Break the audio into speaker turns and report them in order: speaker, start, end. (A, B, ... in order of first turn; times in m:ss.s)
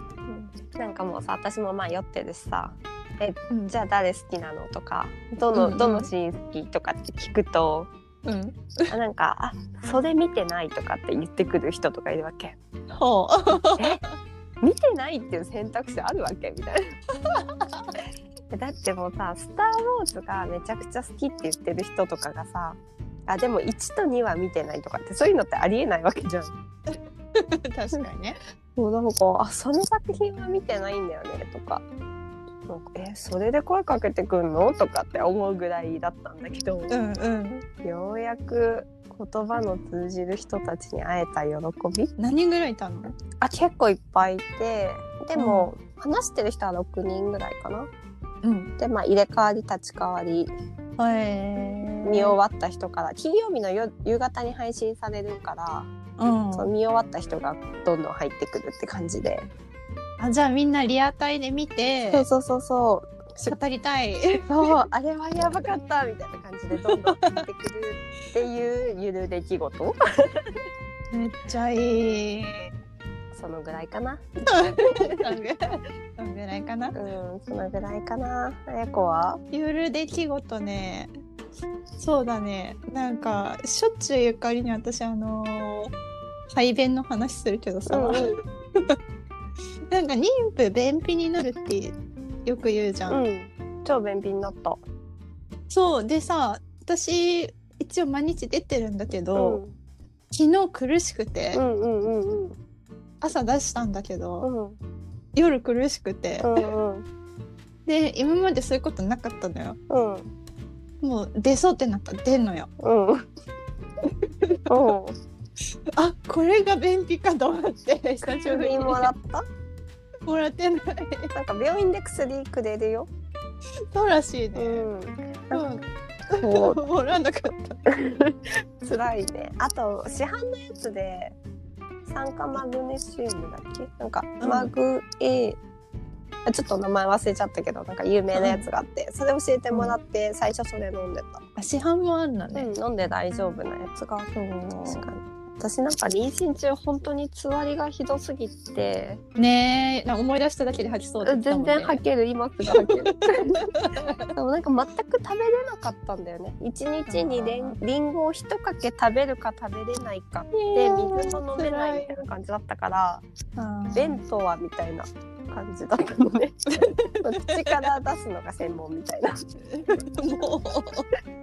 0:00.8-0:07.9 A
0:05.6-0:06.1 B
0:08.2-0:08.9 B
0:08.9-0:12.6 A
0:12.9-0:14.0 B
0:14.6-0:16.9 A
0:17.2-0:17.9 B
0:18.5-0:26.5 A
0:27.4-0:28.4 B
0:28.8-0:31.8 A
0:32.7-0:37.0 A
0:36.9-0:37.6 B
0:37.8-0:42.1 A
0:42.2-0:43.1 B
0:43.4-0:47.9 A
0:45.4-0:45.7 B
0:48.4-0:48.7 B
0:48.8-0:50.5 A
0:51.0-0:52.4 B
0:52.0-0:59.5 A
0:56.2-0:56.7 B
1:00.2-1:02.3 B
1:02.1-1:03.5 A
1:03.5-1:04.5 B
1:04.5-1:10.6 A
1:06.8-1:07.4 B
1:11.1-1:12.7 B
1:13.3-1:15.3 A
1:14.5-1:17.0 B
1:16.9-1:19.4 A
1:19.5-1:21.1 B
1:22.0-1:25.9 B
1:26.5-1:29.0 B
1:27.9-1:28.4 A
1:29.9-1:33.2 B
1:33.1-1:34.8 A
1:35.7-1:39.6 B
1:39.4-1:39.8 A
1:40.3-1:41.6 B
1:41.5-1:42.6 A
1:43.2-1:44.5 B
1:44.4-1:44.8 A
1:45.4-1:46.5 B
1:46.4-1:47.1 A
1:47.9-1:49.8 B
1:49.9-1:50.3 A
1:51.0-1:52.7 B
1:52.8-1:53.3 A
1:54.2-1:55.0 B
1:54.7-1:55.2 A
1:55.9-1:59.1 B
1:58.2-1:59.5 A
2:00.3-2:01.3 B
2:01.3-2:03.1 A
2:03.9-2:04.9 B
2:04.6-2:05.7 A
2:05.5-2:07.8 B
2:06.4-2:06.8 A
2:07.9-2:11.4 A
2:12.1-2:15.6 A
2:14.4-2:14.7 B
2:16.4-2:21.4 A
2:18.3-2:18.6 B
2:21.6-2:22.7 B
2:22.5-2:29.2 A
2:24.8-2:25.1 B
2:29.4-2:32.0 B
2:31.2-2:33.7 A
2:32.8-2:33.2 B
2:33.8-2:34.1 B
2:34.3-2:43.2 A
2:37.1-2:37.8 B
2:40.5-2:42.1 B
2:43.6-2:44.2 B
2:43.9-2:49.3 A
2:49.7-2:51.1 B